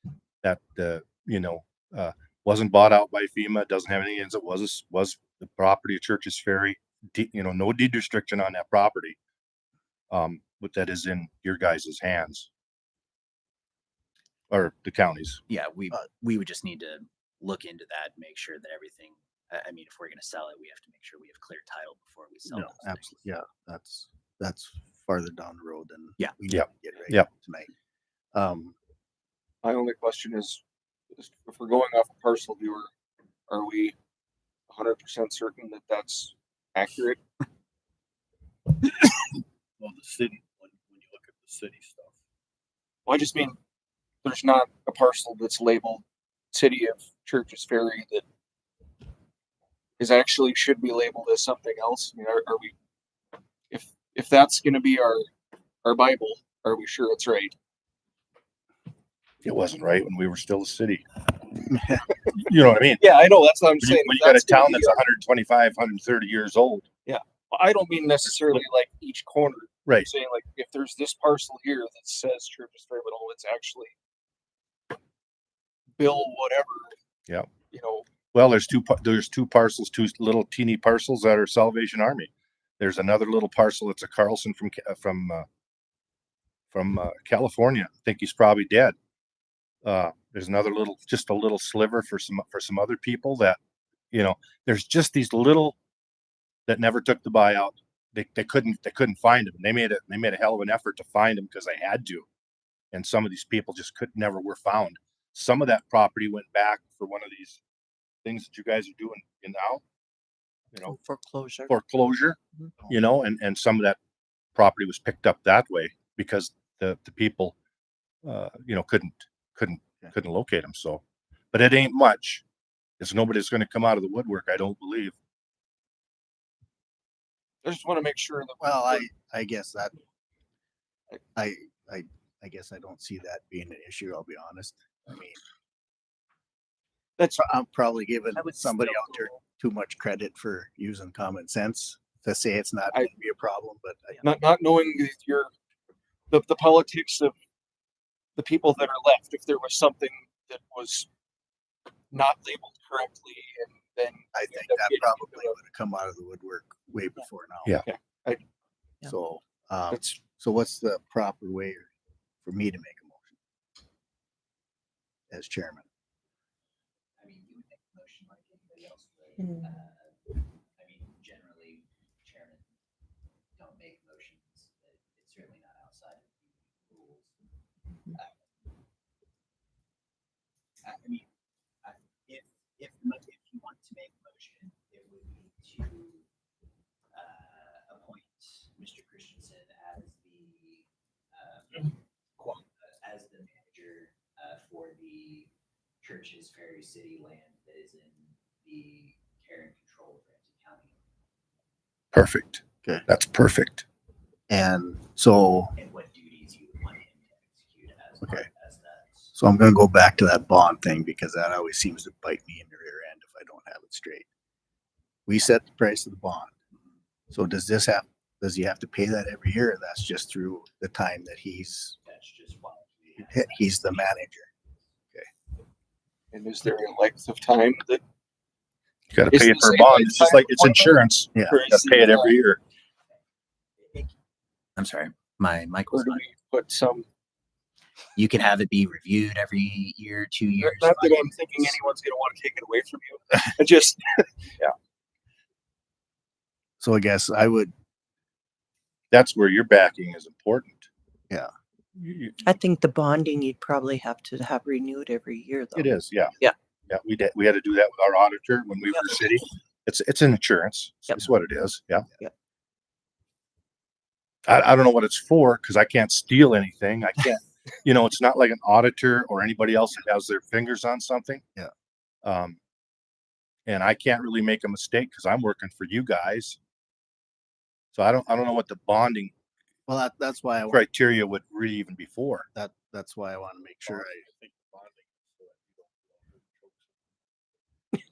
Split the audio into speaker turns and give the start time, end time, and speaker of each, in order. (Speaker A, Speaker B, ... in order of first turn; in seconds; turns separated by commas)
Speaker A: 0.4-9.2, Speaker A: 10.1-12.5, Speaker A: 14.5-15.4, Speaker B: 15.5-23.2, Speaker C: 22.5-27.7, Speaker A: 26.5-27.3, Speaker C: 28.3-28.8, Speaker D: 29.6-30.6, Speaker D: 31.1-32.9, Speaker D: 33.5-34.0, Speaker D: 34.7-37.2, Speaker E: 39.8-42.1, Speaker D: 43.1-43.6, Speaker D: 44.2-48.2, Speaker D: 50.0-52.7, Speaker D: 53.7-55.3, Speaker D: 55.8-57.5, Speaker A: 59.4-61.1, Speaker A: 62.3-63.1, Speaker D: 63.0-65.0, Speaker A: 63.8-66.9, Speaker D: 67.1-73.9, Speaker D: 76.0-76.9, Speaker D: 77.7-78.1, Speaker A: 78.3-85.5, Speaker A: 86.7-89.0, Speaker A: 89.8-93.6, Speaker A: 94.1-95.8, Speaker A: 96.7-102.3, Speaker A: 102.9-107.6, Speaker A: 108.2-109.8, Speaker F: 110.8-111.7, Speaker A: 111.7-114.0, Speaker A: 114.5-117.5, Speaker A: 118.2-122.4, Speaker A: 123.0-125.2, Speaker D: 127.6-129.1, Speaker C: 128.6-130.0, Speaker C: 131.3-135.4, Speaker C: 137.4-144.2, Speaker F: 138.6-139.2, Speaker D: 144.2-145.5, Speaker D: 146.3-147.3, Speaker D: 148.4-151.1, Speaker D: 152.1-155.6, Speaker C: 154.3-157.7, Speaker D: 157.9-158.4, Speaker C: 159.0-161.9, Speaker D: 159.9-160.2, Speaker C: 162.4-163.4, Speaker C: 165.3-165.9, Speaker B: 167.2-172.7, Speaker F: 169.4-169.8, Speaker B: 173.6-177.3, Speaker B: 178.2-178.5, Speaker B: 180.8-181.3, Speaker B: 181.8-186.2, Speaker B: 187.1-195.5, Speaker B: 196.0-201.0, Speaker A: 202.1-203.8, Speaker C: 204.5-205.7, Speaker B: 205.8-209.3, Speaker C: 209.4-214.3, Speaker C: 215.3-216.5, Speaker C: 217.3-222.0, Speaker B: 222.1-224.1, Speaker C: 223.2-224.5, Speaker D: 226.3-228.0, Speaker A: 229.1-232.6, Speaker D: 229.3-232.4, Speaker B: 233.8-234.1, Speaker B: 234.8-236.2, Speaker D: 235.9-237.1, Speaker B: 238.2-241.8, Speaker D: 240.6-244.3, Speaker C: 246.8-247.7, Speaker A: 249.1-250.9, Speaker A: 252.0-252.4, Speaker F: 252.4-256.6, Speaker A: 255.8-256.3, Speaker A: 256.9-262.1, Speaker A: 264.5-271.4, Speaker A: 272.2-272.6, Speaker A: 273.7-276.6, Speaker A: 277.9-279.3, Speaker C: 279.9-280.8, Speaker A: 280.7-282.5, Speaker C: 282.5-284.2, Speaker E: 283.9-287.3